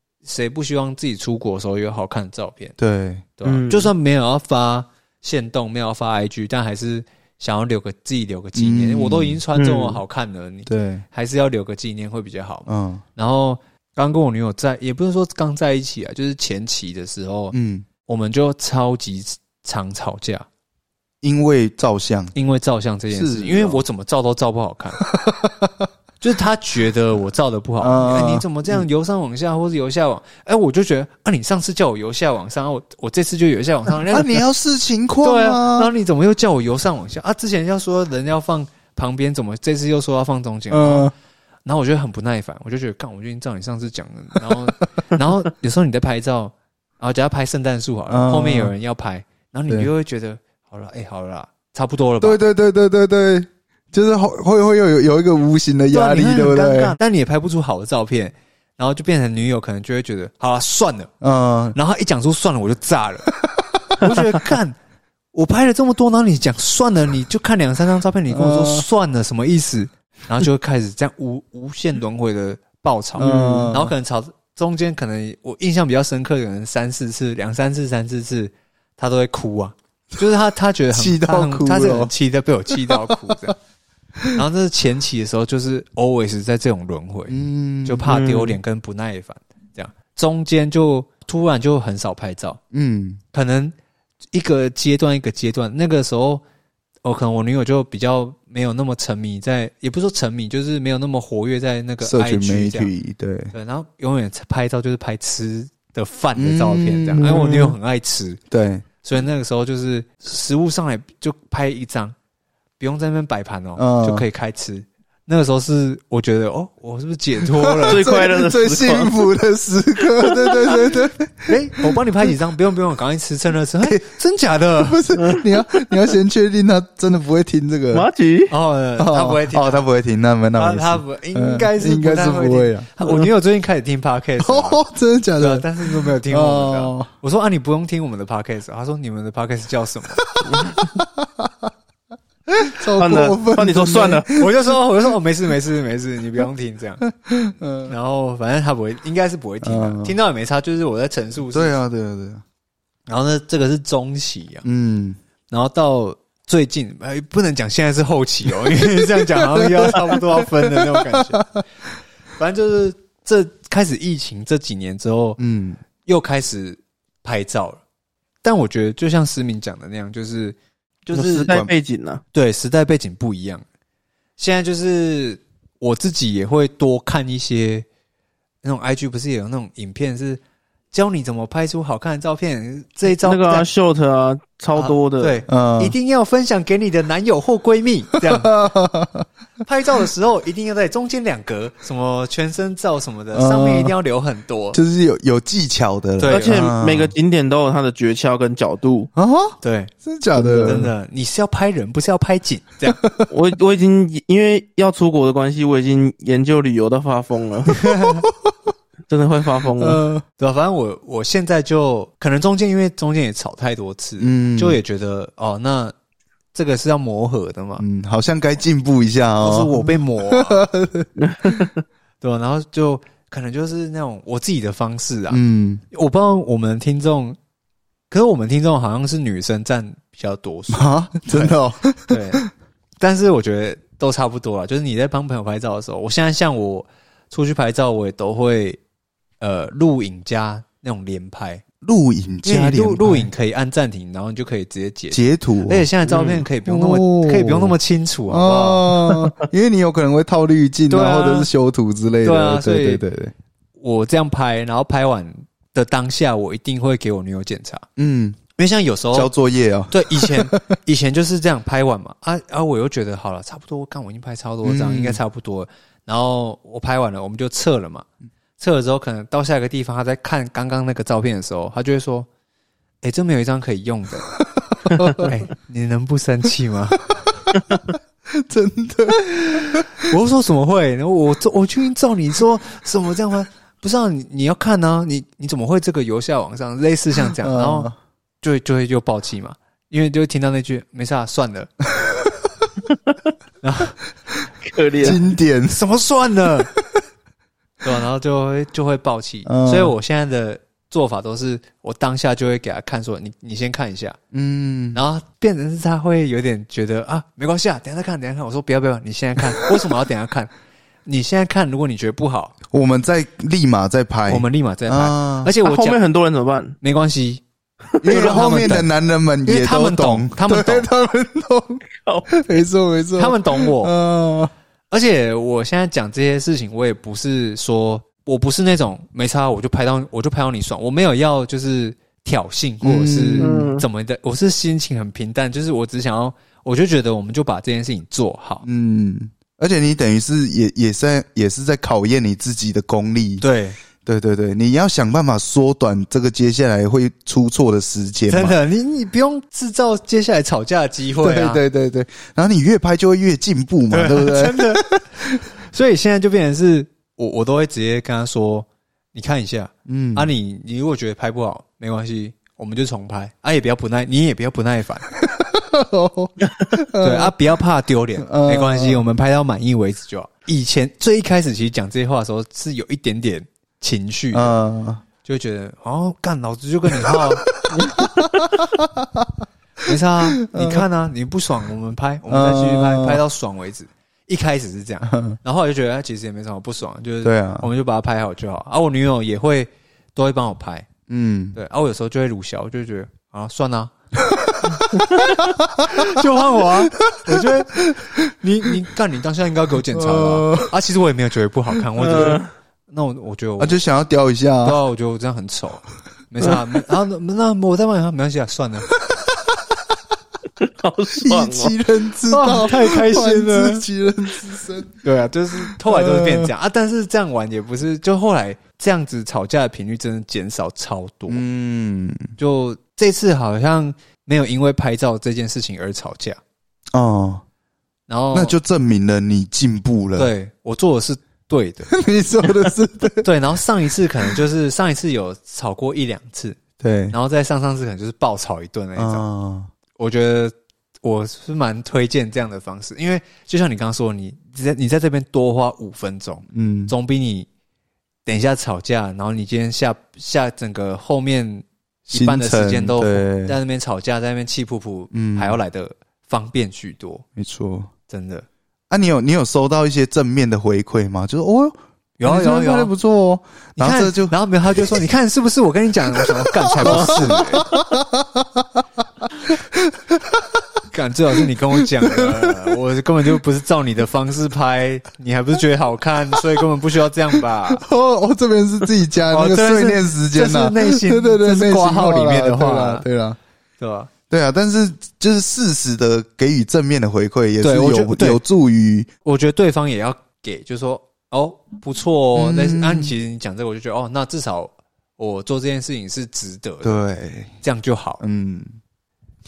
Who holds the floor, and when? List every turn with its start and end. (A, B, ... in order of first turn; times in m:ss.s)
0:00.2-0:02.8 A
0:02.8-0:03.3 B
0:03.4-0:20.4 A
0:03.4-0:03.9 C
0:08.6-0:09.4 B
0:09.6-0:10.0 C
0:10.7-0:11.0 B
0:12.7-0:13.0 B
0:17.5-0:17.9 B
0:21.2-0:22.3 B
0:22.3-0:25.0 A
0:23.1-0:23.8 B
0:25.0-0:25.9 B
0:26.2-0:34.4 A
0:27.8-0:28.8 B
0:34.0-0:35.9 B
0:35.2-0:41.1 A
0:40.7-0:41.1 B
0:41.6-0:52.4 A
0:48.1-0:48.7 B
0:52.2-0:57.0 B
0:55.9-1:01.1 A
1:01.2-1:01.8 B
1:01.7-1:03.3 A
1:03.4-1:04.0 B
1:04.0-1:04.8 A
1:05.3-1:23.5 A
1:08.3-1:08.8 B
1:13.2-1:13.9 B
1:20.9-1:22.1 B
1:22.7-1:23.5 B
1:24.3-1:32.6 A
1:27.3-1:28.1 B
1:28.1-1:28.5 C
1:32.7-1:33.2 B
1:33.3-1:33.7 A
1:34.3-1:36.4 A
1:37.0-1:42.9 A
1:42.0-1:43.5 B
1:43.5-1:48.4 A
1:46.3-1:47.7 B
1:48.5-1:48.8 B
1:49.0-1:52.1 A
1:52.8-1:58.1 A
1:53.8-1:54.2 B
1:57.5-2:02.0 B
1:57.8-1:59.1 C
2:00.3-2:00.7 C
2:01.5-2:05.0 A
2:03.8-2:04.1 B
2:04.8-2:08.1 B
2:05.2-2:05.4 C
2:07.9-2:08.5 C
2:08.5-2:09.8 A
2:09.0-2:12.9 B
2:10.6-2:14.8 A
2:14.4-2:17.1 B
2:15.4-2:20.2 A
2:20.2-2:21.7 B
2:20.5-2:20.9 C
2:22.5-2:24.5 B
2:23.0-2:24.3 C
2:24.3-2:27.0 A
2:27.2-2:27.9 B
2:27.9-2:31.8 A
2:29.6-2:30.1 B
2:31.5-2:32.4 B
2:33.1-2:34.6 A
2:34.6-2:35.2 B
2:35.5-2:41.4 A
2:39.2-2:41.6 B
2:42.4-2:45.4 A
2:45.4-2:45.8 B
2:46.0-2:47.8 A
2:48.4-2:51.5 A
2:51.1-2:52.2 C
2:52.3-2:53.6 A
2:54.4-2:57.8 A
2:58.6-3:00.4 A
3:00.9-3:03.7 A
3:03.2-3:05.4 C
3:04.8-3:08.5 A
3:05.5-3:05.9 B
3:08.2-3:09.2 B
3:09.6-3:14.8 A
3:13.3-3:13.9 B
3:14.7-3:17.1 B
3:16.2-3:16.7 A
3:16.3-3:19.1 C
3:19.2-3:20.9 B
3:19.6-3:23.0 A
3:22.9-3:23.3 B
3:23.3-3:27.7 C
3:27.7-3:28.2 A
3:27.8-3:28.5 B
3:29.1-3:30.0 C
3:29.8-3:30.2 B
3:30.4-3:35.9 A
3:34.2-3:34.8 B
3:36.5-3:37.8 A
3:37.8-3:41.6 B
3:39.4-3:40.7 A
3:41.2-3:41.8 C
3:42.2-3:45.4 A
3:45.3-3:45.8 B
3:45.9-3:47.4 A
3:48.1-3:52.4 A
3:50.7-3:52.5 B
3:53.0-3:58.8 A
3:59.4-4:01.6 A
4:01.8-4:03.3 B
4:02.4-4:08.9 A
4:05.1-4:05.9 B
4:06.6-4:07.7 B
4:08.3-4:13.3 B
4:10.9-4:11.5 A
4:12.2-4:13.0 A
4:13.8-4:17.8 A
4:18.0-4:18.4 B
4:18.6-4:19.3 A
4:19.1-4:20.6 B
4:19.9-4:28.0 A
4:24.6-4:25.2 B
4:28.6-4:32.3 A
4:33.0-4:34.3 A
4:34.4-4:35.3 B
4:35.1-4:37.0 A
4:38.3-4:40.1 B
4:39.4-4:47.9 A
4:47.3-4:47.9 B
4:48.4-4:51.7 A
4:52.0-4:52.4 B
4:53.6-4:54.0 A
4:54.6-4:55.2 C
4:55.0-4:55.8 B
4:55.7-4:56.7 A
4:57.8-5:04.2 A
4:59.4-4:59.9 B
5:04.3-5:05.0 B
5:04.9-5:10.5 A
5:11.0-5:12.5 A
5:12.7-5:15.5 B
5:14.3-5:16.0 A
5:15.6-5:16.8 C
5:16.8-5:17.4 A
5:18.0-5:18.5 C
5:18.0-5:24.5 B
5:18.0-5:18.9 A
5:19.4-5:20.9 A
5:22.0-5:22.3 C
5:23.2-5:23.9 A
5:24.9-5:38.6 A
5:32.8-5:33.7 B
5:33.4-5:33.8 C
5:38.6-5:43.4 B
5:43.4-5:43.8 A
5:44.0-5:48.6 B
5:48.3-5:51.6 A
5:51.2-5:55.3 B
5:53.9-5:54.9 A
5:55.7-6:05.0 A
5:59.8-6:00.3 B
6:05.2-6:07.3 B
6:07.0-6:14.5 A
6:08.2-6:09.0 B
6:14.3-6:15.0 B
6:15.2-6:17.5 A
6:17.0-6:19.4 B
6:19.8-6:30.9 A
6:20.5-6:20.8 B
6:22.3-6:23.2 B
6:25.1-6:25.4 B
6:27.2-6:27.7 B
6:31.1-6:31.6 B
6:31.5-6:33.9 A
6:34.3-6:38.2 B
6:35.1-6:35.4 C
6:35.8-6:43.8 A
6:39.9-6:40.7 B
6:42.0-6:42.5 C
6:43.6-6:44.8 B
6:44.6-6:48.9 A
6:49.0-6:49.9 B
6:50.6-6:51.7 C
6:51.2-6:55.0 B
6:52.3-6:53.8 A
6:55.0-7:01.4 A
6:55.7-6:56.5 B
7:01.3-7:02.3 B
7:02.4-7:06.4 A
7:06.9-7:07.4 B
7:08.1-7:08.6 A
7:08.3-7:10.3 B
7:10.2-7:11.9 A
7:11.9-7:13.3 B
7:13.2-7:16.6 A
7:16.8-7:17.1 B
7:17.1-7:19.2 A
7:19.0-7:19.7 B
7:20.0-7:27.5 A
7:26.5-7:26.9 B
7:28.2-7:37.2 A
7:32.1-7:33.6 B
7:35.1-7:35.6 B
7:37.4-7:37.9 B
7:38.1-7:38.4 A
7:38.9-7:45.0 B
7:42.2-7:42.9 A
7:43.8-7:47.7 A
7:46.7-7:48.8 B
7:49.4-7:50.6 B
7:50.9-7:57.8 A
7:51.8-7:52.7 B
7:57.7-8:03.4 B
7:59.3-8:03.0 A
8:03.8-8:04.1 A
8:04.3-8:09.1 B
8:07.6-8:08.4 A
8:09.2-8:17.0 A
8:12.4-8:13.1 B
8:16.8-8:17.5 B
8:17.6-8:18.2 A
8:18.2-8:18.7 B